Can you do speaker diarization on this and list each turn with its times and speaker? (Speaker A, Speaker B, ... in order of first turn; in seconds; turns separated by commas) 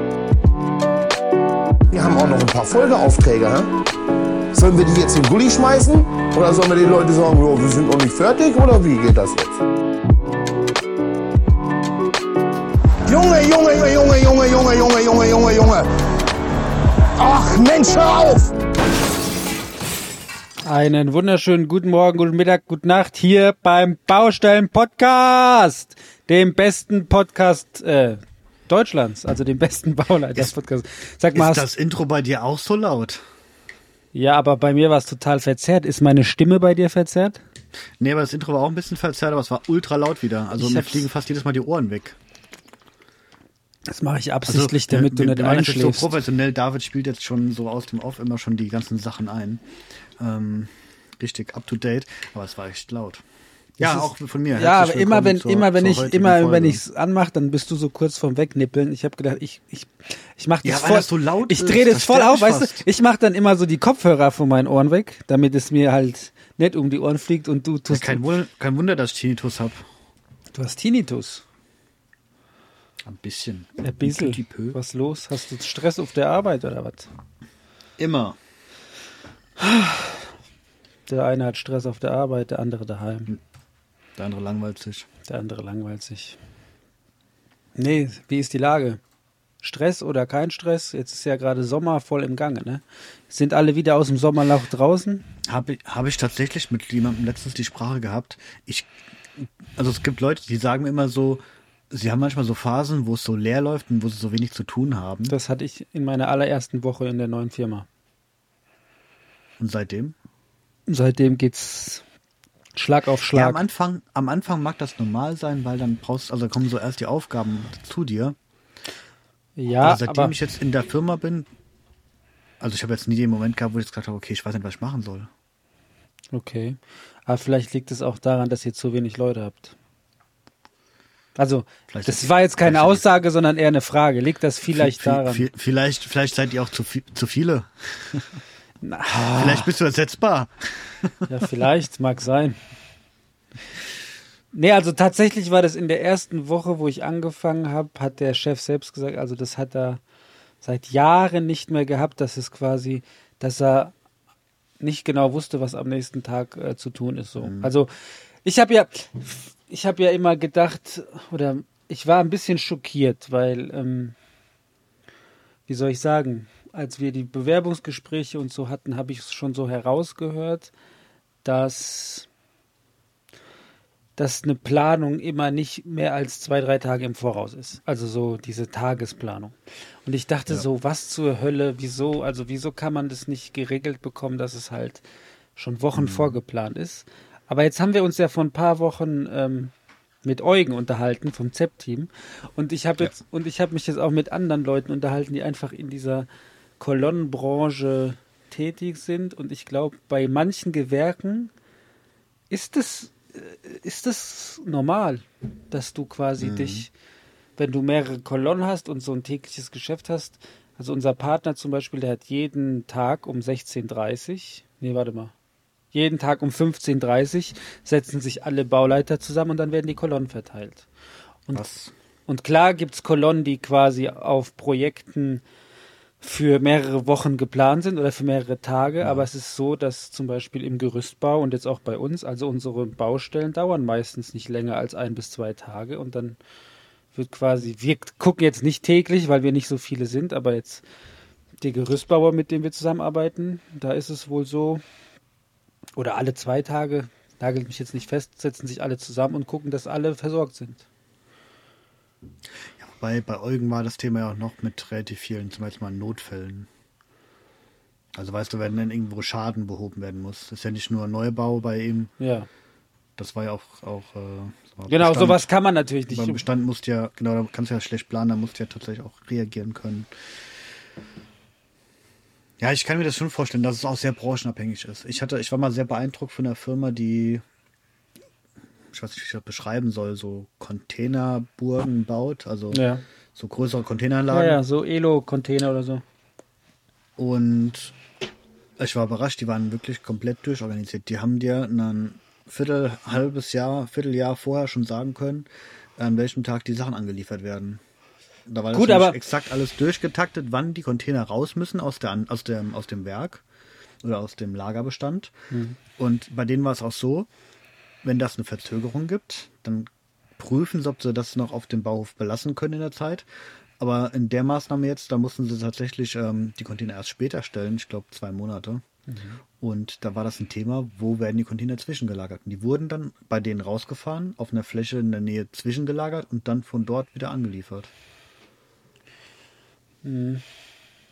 Speaker A: 1.9-3.7, Speaker A: 4.5-9.6, Speaker A: 13.0-15.9, Speaker A: 17.2-18.5, Speaker B: 20.6-31.6, Speaker C: 31.3-33.2, Speaker B: 34.1-37.4, Speaker C: 38.0-42.2, Speaker B: 40.6-41.0, Speaker B: 43.9-46.1, Speaker C: 44.5-49.6, Speaker C: 50.2-53.2, Speaker C: 53.8-56.8, Speaker B: 53.8-68.2, Speaker C: 60.6-62.9, Speaker C: 67.9-69.8, Speaker B: 70.5-71.4, Speaker C: 73.0-74.8, Speaker B: 73.8-77.1, Speaker C: 78.0-78.4, Speaker B: 79.6-80.2, Speaker B: 81.1-83.3, Speaker C: 84.2-85.1, Speaker B: 85.3-86.4, Speaker B: 87.8-89.0, Speaker B: 89.6-95.2, Speaker C: 95.5-105.3, Speaker B: 105.3-107.8, Speaker C: 109.6-110.2, Speaker B: 110.9-112.0, Speaker B: 112.7-113.6, Speaker C: 113.3-118.4, Speaker B: 119.5-120.3, Speaker C: 119.8-121.5, Speaker C: 122.6-125.3, Speaker B: 126.3-129.7, Speaker B: 131.3-135.5, Speaker C: 131.9-133.0, Speaker C: 134.7-138.4, Speaker B: 138.8-139.7, Speaker C: 139.3-141.1, Speaker B: 141.3-142.6, Speaker B: 144.5-150.0, Speaker B: 150.6-153.9, Speaker B: 154.8-164.1, Speaker C: 157.4-157.7, Speaker B: 165.7-170.7, Speaker B: 171.4-172.3, Speaker B: 174.2-185.0, Speaker B: 185.6-189.7, Speaker C: 185.9-186.4, Speaker B: 190.2-196.3, Speaker B: 196.8-201.5, Speaker B: 202.5-206.9, Speaker C: 206.4-206.9, Speaker B: 207.6-215.3, Speaker B: 215.9-220.8, Speaker C: 221.5-221.9, Speaker B: 222.3-225.4, Speaker B: 226.2-236.4, Speaker C: 229.0-229.3, Speaker B: 237.1-240.8, Speaker B: 241.6-244.8, Speaker B: 246.0-250.8, Speaker C: 252.5-256.7, Speaker C: 258.1-262.1, Speaker B: 262.2-262.5, Speaker C: 263.2-265.5, Speaker B: 264.9-266.4, Speaker C: 266.1-270.1, Speaker C: 272.6-277.4, Speaker C: 278.9-282.8, Speaker B: 282.7-283.0, Speaker C: 283.3-284.6, Speaker B: 284.3-286.0, Speaker C: 287.2-287.9, Speaker C: 288.8-297.8, Speaker C: 298.4-303.4, Speaker B: 298.7-299.2, Speaker C: 304.0-305.3, Speaker B: 305.5-305.8, Speaker C: 306.0-307.3, Speaker C: 308.0-313.3, Speaker C: 313.8-318.8, Speaker B: 319.1-319.4, Speaker C: 319.6-327.9, Speaker B: 330.0-330.4